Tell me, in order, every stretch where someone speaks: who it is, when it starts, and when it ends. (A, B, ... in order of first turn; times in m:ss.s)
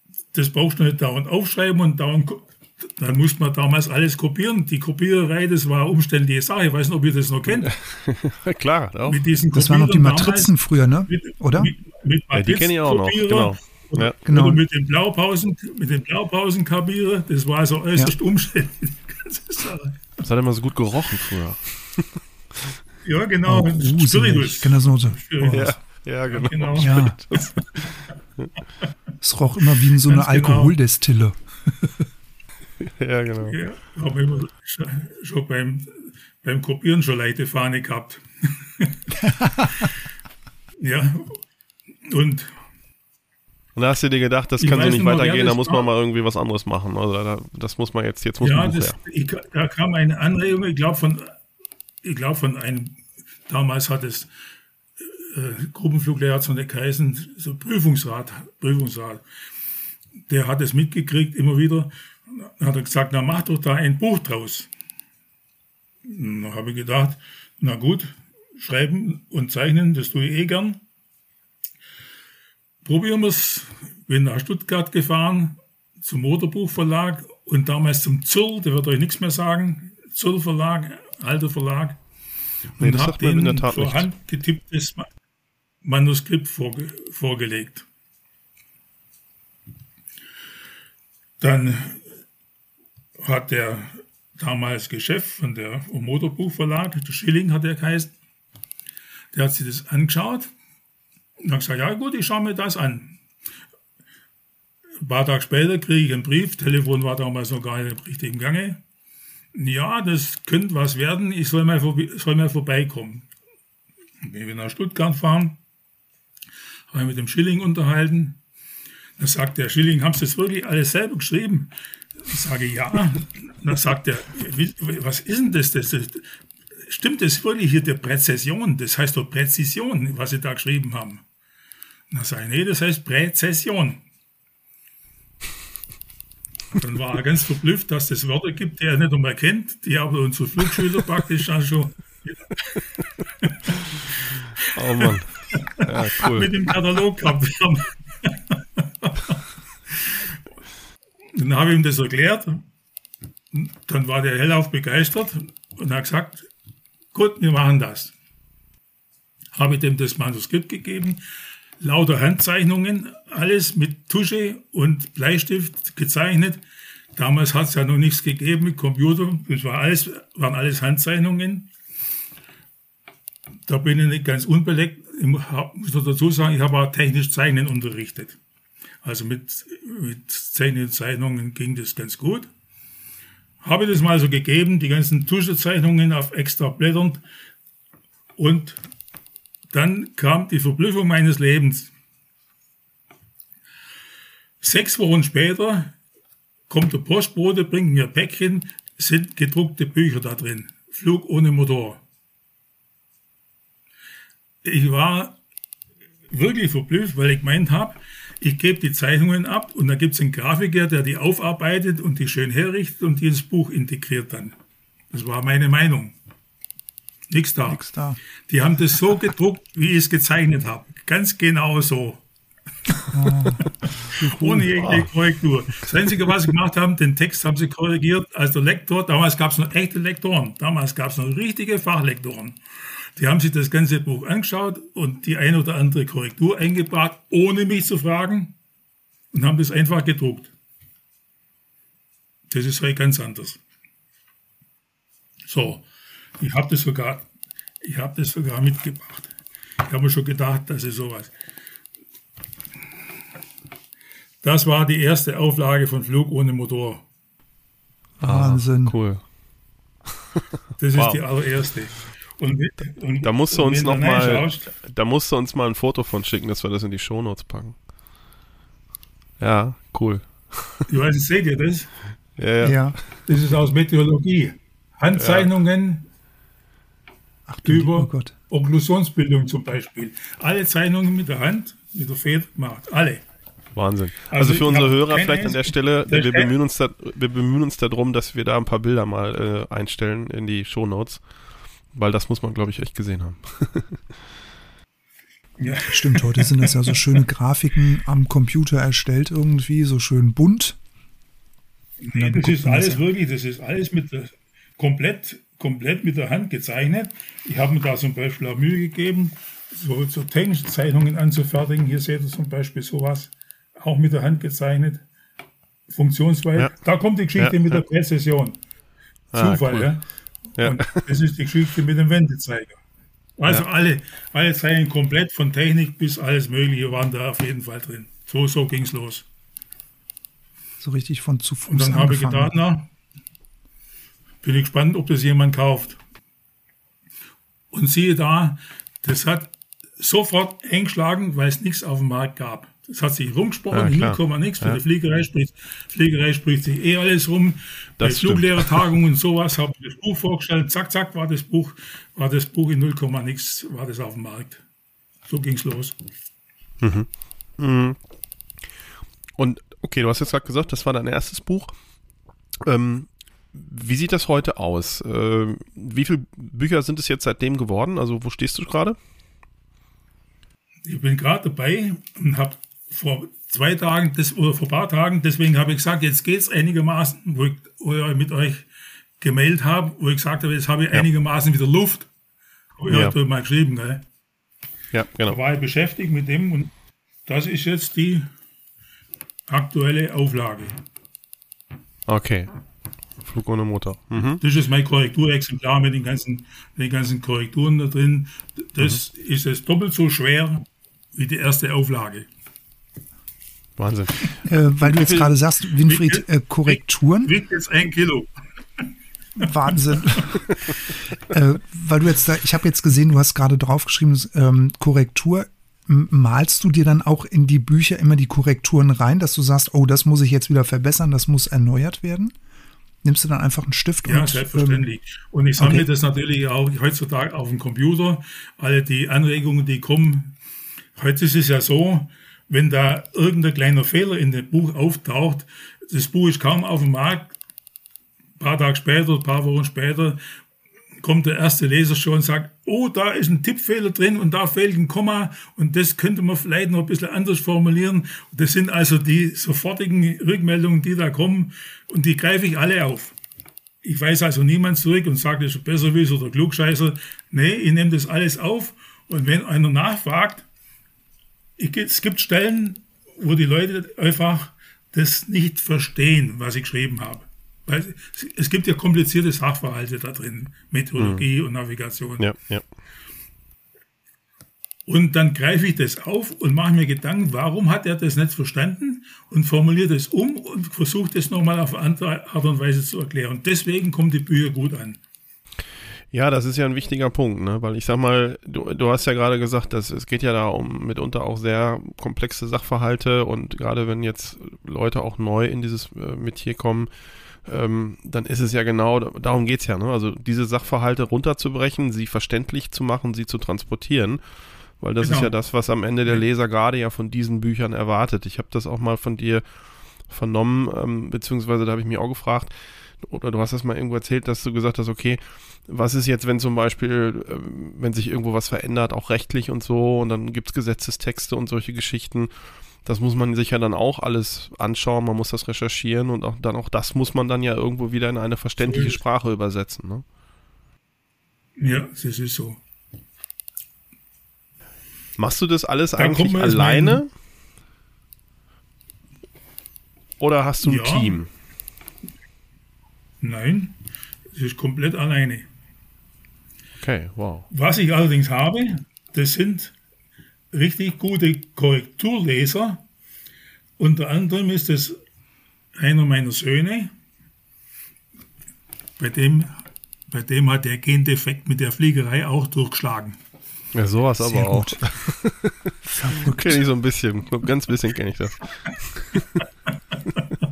0:00.3-0:07.7 A
0:07.6-0:09.2 B
0:09.1-0:10.5 A
0:09.5-0:11.7 C
0:11.1-0:20.0 A
0:12.3-0:14.2 B
0:14.2-0:14.6 C
0:20.2-0:22.8 B
0:23.0-0:25.7 A
0:23.4-0:25.8 C
0:25.5-0:28.5 B
0:26.3-0:27.4 A
0:26.8-0:27.2 C
0:29.2-0:32.0 C
0:30.0-0:30.8 A
0:32.8-0:33.6 B
0:33.5-0:39.0 A
0:39.2-0:39.8 C
0:40.8-0:41.4 A
0:42.1-0:42.5 A
0:43.8-0:49.0 B
0:44.6-0:45.9 A
0:48.4-0:51.3 A
0:52.0-0:53.0 A
0:53.5-0:54.3 A
0:55.0-0:59.2 A
1:00.3-1:04.7 A
1:06.1-1:10.8 A
1:12.8-1:22.0 A
1:22.8-1:24.1 B
1:22.8-1:25.1 A
1:25.8-1:27.8 A
1:31.4-1:32.0 A
1:33.2-1:38.1 A
1:39.3-1:40.5 A
1:41.4-1:43.2 A
1:45.0-1:48.8 A
1:49.5-1:53.3 A
1:54.2-1:55.6 A
1:56.9-1:58.4 A
1:59.2-2:01.7 A
2:02.3-2:06.3 A
2:06.9-2:11.2 A
2:12.1-2:14.0 A
2:16.8-2:22.4 A
2:23.4-2:23.7 A
2:24.7-2:26.6 B
2:25.0-2:29.4 A
2:29.9-2:30.2 A
2:31.4-2:32.6 A
2:33.5-2:36.5 A
2:37.1-2:38.1 A
2:39.6-2:41.2 A
2:41.8-2:46.6 A
2:47.2-2:51.7 A
2:53.7-2:58.4 A
2:59.0-3:02.5 A
3:03.6-3:07.2 A
3:08.4-3:08.8 A
3:09.7-3:11.9 A
3:14.6-3:15.9 A
3:16.7-3:22.0 A
3:24.6-3:25.4 A
3:26.3-3:34.6 A
3:35.1-3:36.1 A
3:37.3-3:37.8 A
3:37.7-3:38.2 C
3:38.5-3:42.2 A
3:43.1-3:43.6 C
3:44.0-3:52.6 A
3:44.4-3:45.1 B
3:53.2-3:58.6 A
3:59.3-4:00.5 A
4:02.5-4:03.6 A
4:05.5-4:05.9 A
4:06.4-4:07.2 A
4:07.8-4:09.3 A
4:09.9-4:11.3 A
4:14.4-4:17.0 A
4:18.2-4:19.0 C
4:18.2-4:19.2 B
4:20.8-4:24.7 A
4:21.0-4:21.2 B
4:23.2-4:27.8 B
4:29.4-4:30.9 B
4:30.9-4:32.0 A
4:32.4-4:33.0 B
4:32.6-4:33.0 C
4:33.3-4:36.1 A
4:35.2-4:35.5 B
4:37.5-4:38.3 C
4:37.6-4:43.2 A
4:43.8-4:51.2 B
4:44.3-4:46.5 A
4:51.9-4:54.0 B
4:55.6-4:57.0 A
4:55.9-5:00.8 C
5:02.0-5:15.0 A
5:02.1-5:03.0 C
5:15.9-5:18.6 A
5:17.4-5:17.8 B
5:19.3-5:20.0 B
5:19.3-5:20.1 A
5:20.6-5:21.1 B
5:20.6-5:22.8 A
5:23.4-5:29.3 A
5:30.8-5:32.5 C
5:31.7-5:32.9 A
5:34.4-5:36.0 A
5:37.7-5:54.6 A
5:43.7-5:44.8 B
5:48.0-5:48.8 B
5:55.3-5:56.0 A
5:56.8-5:58.0 B
5:59.4-6:01.7 B
6:02.6-6:09.0 B
6:10.8-6:18.7 A
6:19.2-6:22.1 A
6:22.8-6:24.0 A
6:22.9-6:23.2 B
6:24.9-6:25.4 B
6:25.3-6:26.7 A
6:27.3-6:28.3 A
6:29.5-6:30.7 A
6:32.1-6:32.5 B
6:33.2-6:34.4 B
6:34.4-6:42.3 A
6:43.8-6:44.5 B
6:44.4-6:47.3 C
6:45.0-6:45.3 A
6:45.8-6:48.3 A
6:49.4-7:02.4 C
7:03.0-7:04.9 C
7:04.0-7:10.3 A
7:05.6-7:05.9 C
7:11.0-7:17.3 A
7:18.4-7:20.2 A
7:21.0-7:33.1 A
7:33.8-7:40.4 A
7:41.6-7:52.3 A
7:51.0-7:51.3 B
7:52.2-7:52.6 B
7:54.9-8:05.0 A
8:06.1-8:16.9 B
8:17.4-8:24.2 B
8:24.8-8:29.4 B
8:25.0-8:25.3 A
8:30.1-8:42.3 B
8:42.8-8:50.0 B
8:48.6-8:49.0 A
8:51.6-8:52.6 A
8:55.2-8:57.1 B
8:56.0-8:57.0 A
9:00.2-9:01.3 B
9:00.6-9:01.2 A
9:03.2-9:03.8 A
9:04.3-9:05.4 A
9:06.8-9:07.5 B
9:07.5-9:09.7 A
9:10.5-9:12.8 A
9:13.8-9:15.0 A
9:15.8-9:16.9 A
9:19.0-9:23.2 A
9:23.7-9:29.4 B
9:24.2-9:24.8 C
9:25.8-9:26.6 C